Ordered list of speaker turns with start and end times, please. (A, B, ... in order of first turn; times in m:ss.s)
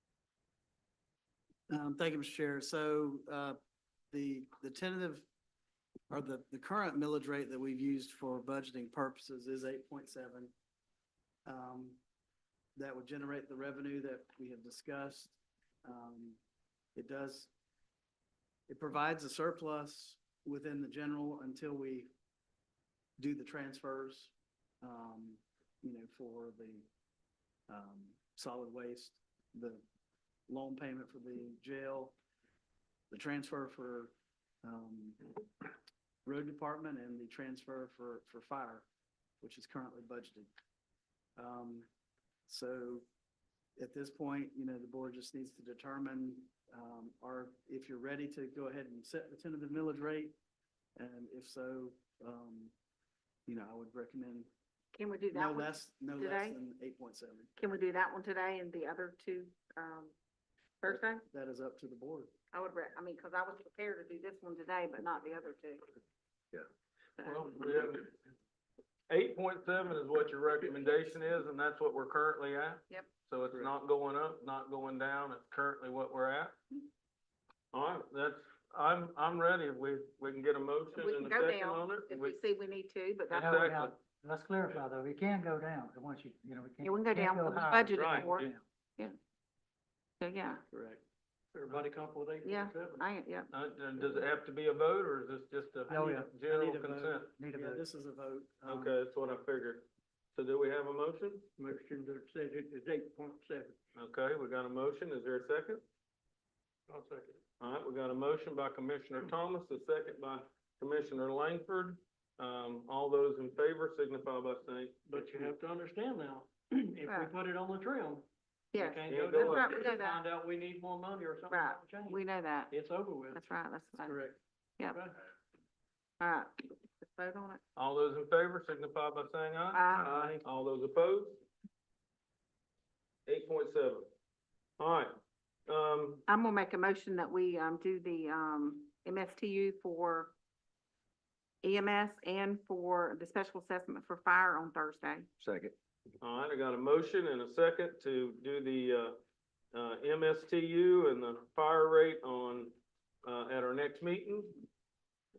0:01.7-0:03.6 A
0:04.1-0:05.2 A
0:06.1-0:10.5 A
0:11.4-0:12.0 A
0:12.8-0:16.4 A
0:16.9-0:17.5 A
0:18.7-0:22.1 A
0:23.2-0:26.8 A
0:27.7-0:29.8 A
0:30.5-0:32.2 A
0:33.1-0:35.3 A
0:36.2-0:38.8 A
0:39.4-0:40.5 A
0:41.4-0:41.9 A
0:42.5-0:43.0 A
0:43.8-0:50.3 A
0:51.0-0:52.7 A
0:53.4-0:54.5 A
0:54.9-0:56.6 B
0:55.3-0:57.5 A
0:57.6-1:00.1 B
1:00.8-1:01.2 B
1:00.8-1:02.3 A
1:02.5-1:05.8 B
1:07.2-1:07.5 B
1:07.2-1:08.1 C
1:09.1-1:16.6 C
1:17.7-1:22.4 C
1:20.9-1:23.5 B
1:23.3-1:23.9 C
1:23.3-1:28.6 D
1:26.8-1:28.5 B
1:27.9-1:28.5 C
1:30.2-1:30.6 B
1:30.7-1:31.0 A
1:31.5-1:33.0 E
1:32.4-1:33.5 B
1:33.5-1:37.3 C
1:35.9-1:36.3 D
1:35.9-1:39.0 A
1:37.3-1:37.8 D
1:38.7-1:41.4 C
1:41.6-1:43.8 E
1:43.9-1:45.8 C
1:46.9-1:47.4 E
1:47.6-1:55.0 C
1:55.0-2:03.4 E
1:57.0-1:57.3 B
1:58.7-2:00.2 B
1:59.1-1:59.8 C
2:01.5-2:02.7 B
2:03.3-2:04.2 B
2:04.0-2:04.4 A
2:04.9-2:05.2 E
2:06.2-2:07.6 B
2:07.8-2:11.4 C
2:09.7-2:10.2 B
2:09.9-2:10.4 E
2:13.2-2:14.1 C
2:14.8-2:15.1 C
2:15.7-2:16.2 C
2:16.3-2:20.3 B
2:21.6-2:25.3 B
2:26.2-2:29.2 C
2:29.7-2:34.6 C